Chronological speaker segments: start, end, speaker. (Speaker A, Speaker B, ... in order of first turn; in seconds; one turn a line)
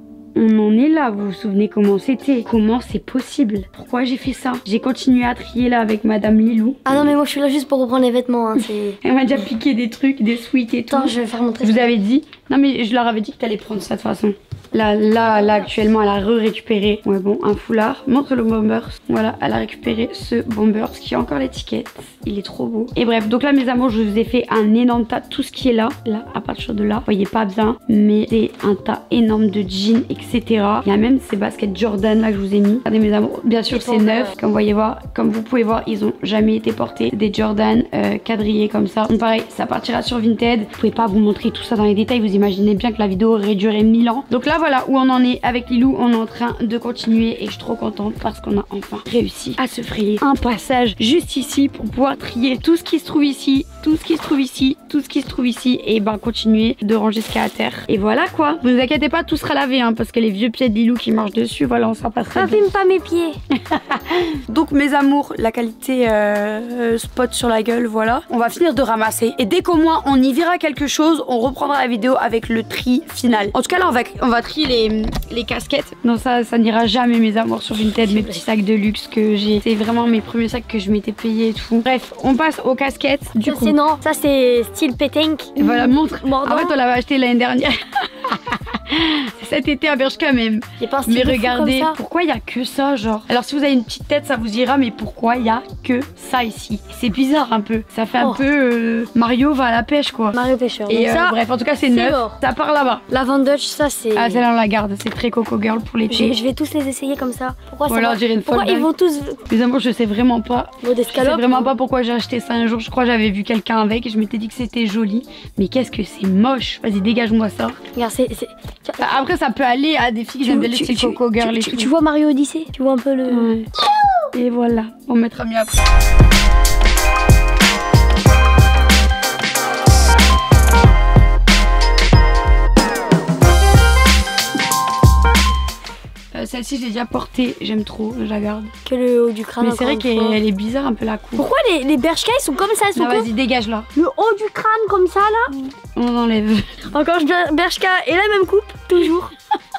Speaker A: 0.3-6.8
Speaker B: 6.9-9.0
Speaker A: 9.0-62.6
Speaker B: 10.9-12.0
Speaker B: 15.3-15.7
Speaker B: 33.7-34.4
Speaker B: 62.4-63.4
Speaker A: 63.5-83.8
Speaker B: 78.0-78.4
Speaker B: 83.4-86.8
Speaker A: 85.6-103.0
Speaker B: 90.8-92.0
Speaker B: 98.2-98.4
Speaker B: 100.3-102.4
Speaker B: 103.1-104.5
Speaker A: 104.2-106.4
Speaker B: 106.1-109.5
Speaker A: 107.9-108.9
Speaker A: 109.5-117.8
Speaker B: 110.8-111.8
Speaker B: 117.9-119.2
Speaker A: 119.0-121.9
Speaker B: 120.4-123.5
Speaker A: 123.3-123.7
Speaker A: 124.3-125.8
Speaker A: 136.3-138.7
Speaker B: 138.8-140.4
Speaker A: 139.6-141.5
Speaker B: 141.3-143.3
Speaker A: 143.0-143.9
Speaker B: 143.9-145.7
Speaker A: 145.9-146.8
Speaker B: 146.9-149.3